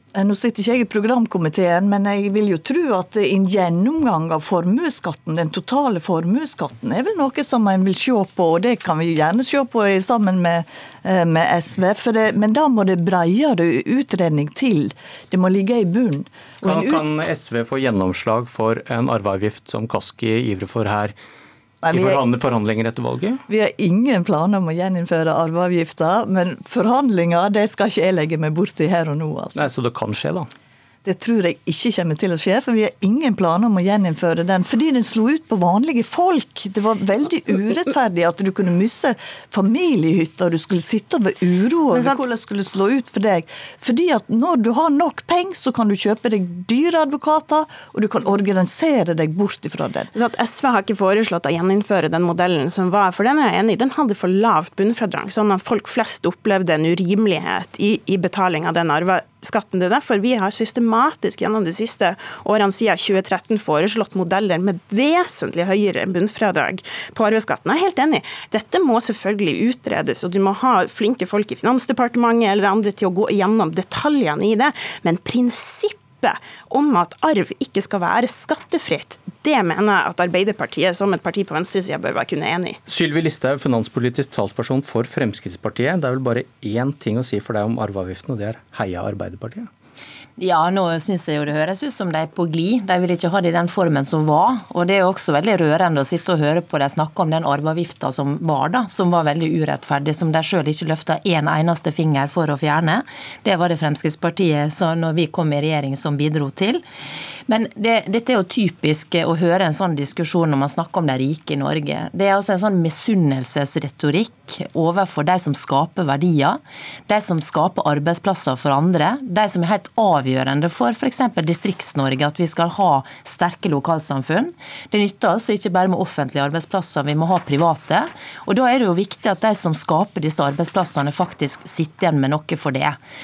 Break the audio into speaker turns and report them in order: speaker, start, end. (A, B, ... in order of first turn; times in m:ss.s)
0:00.1-0:17.1 A
0:16.6-0:21.1 B
0:21.8-0:22.2 A
0:21.9-0:23.4 B
0:23.5-0:29.6 A
0:29.6-0:30.5 B
0:31.0-0:50.1 A
0:41.9-0:42.2 C
0:50.1-1:22.8 C
1:22.9-1:29.7 B
1:30.4-1:46.8 D
1:47.5-2:13.0 D